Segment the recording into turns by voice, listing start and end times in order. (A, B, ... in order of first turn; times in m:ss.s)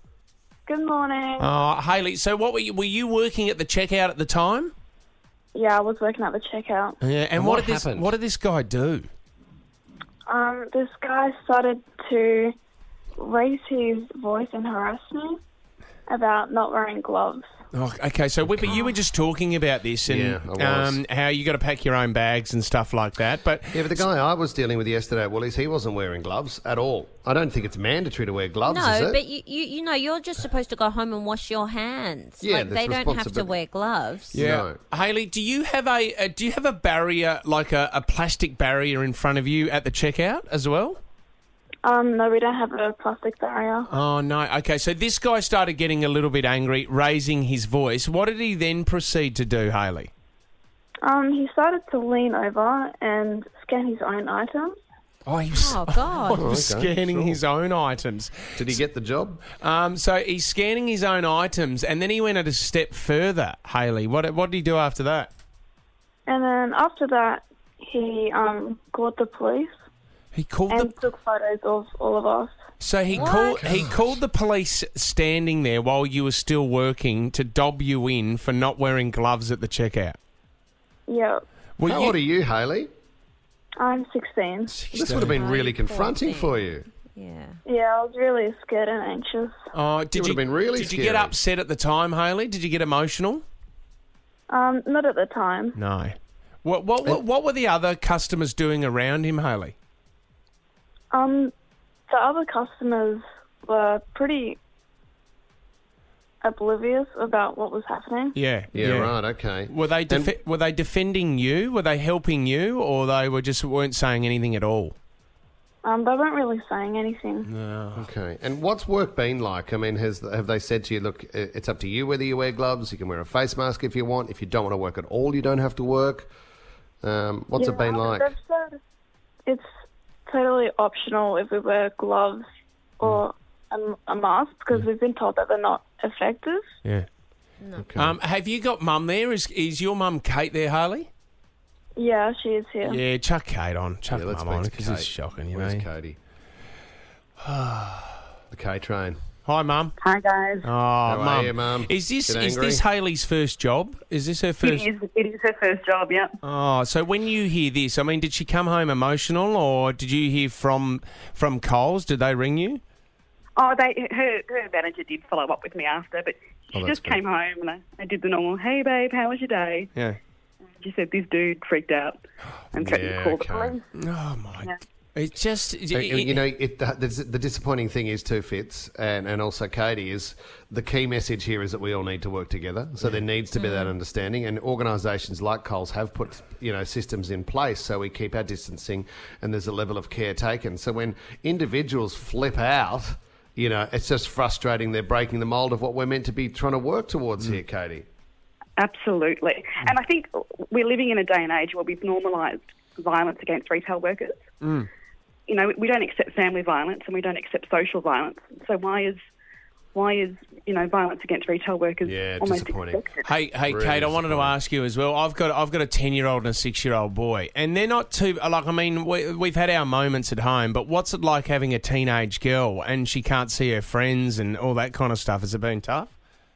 0:00.6-0:01.5 A
0:01.4-0:04.7 B
0:05.5-0:07.0 A
0:07.0-0:09.1 B
0:07.4-0:08.1 C
0:10.3-0:12.5 A
0:13.2-0:15.4 A
0:16.1-0:17.4 A
0:17.7-0:24.0 B
0:20.1-0:21.0 C
0:23.7-0:29.2 C
0:28.6-0:34.4 D
0:32.4-0:33.5 C
0:34.3-0:34.8 C
0:34.3-0:41.0 B
0:41.8-0:43.9 A
0:43.9-0:50.1 B
0:51.0-0:54.8 A
0:55.2-0:58.8 B
0:55.5-0:56.4 D
0:56.4-0:57.4 C
0:58.6-0:59.4 C
0:59.5-1:05.3 B
1:06.2-1:09.7 A
1:10.3-1:10.9 B
1:10.7-1:12.5 A
1:12.8-1:20.2 B
1:13.1-1:13.7 D
1:13.1-1:14.2 C
1:21.1-1:21.4 A
1:21.8-1:22.2 B
1:21.8-1:22.9 C
1:23.8-1:24.8 A
1:24.8-1:25.4 B
1:24.9-1:26.6 D
1:24.9-1:26.8 C
1:27.1-1:27.6 D
1:27.6-1:29.6 A
1:29.7-1:33.4 B
1:30.1-1:31.3 C
1:34.5-1:35.8 A
1:35.8-1:39.7 B
1:41.1-1:41.5 A
1:42.1-1:44.6 A
1:46.4-1:48.4 A
1:48.3-1:54.9 B
1:48.7-1:50.3 C
1:55.8-1:57.5 A
1:57.5-1:58.1 B
1:58.0-2:06.3 C
2:07.0-2:08.3 C
2:07.6-2:08.8 A
2:10.3-2:12.4 A
2:13.0-2:16.6 A
2:17.7-2:18.1 C
2:18.0-2:21.1 B
2:22.0-2:23.0 A
2:22.8-2:25.8 B
2:24.1-2:26.2 C
2:27.4-2:28.2 B
2:28.5-2:29.2 C
2:29.4-2:29.9 B
2:30.0-2:30.7 E
2:30.6-2:34.9 B
2:31.0-2:32.8 C
2:34.6-2:36.3 E
2:36.4-2:42.8 B
2:43.6-2:49.9 E
2:46.7-2:47.2 C
2:50.8-2:52.2 E
2:52.7-2:53.8 E
2:52.8-2:53.7 C
2:53.9-2:56.4 B
2:55.9-3:18.0 C
3:03.6-3:03.9 D
3:18.8-3:24.4 E
3:24.6-3:24.9 B
3:25.5-3:29.2 E
3:29.9-3:33.3 E
3:32.0-3:33.0 C
3:33.2-3:46.1 B
3:33.7-3:34.5 C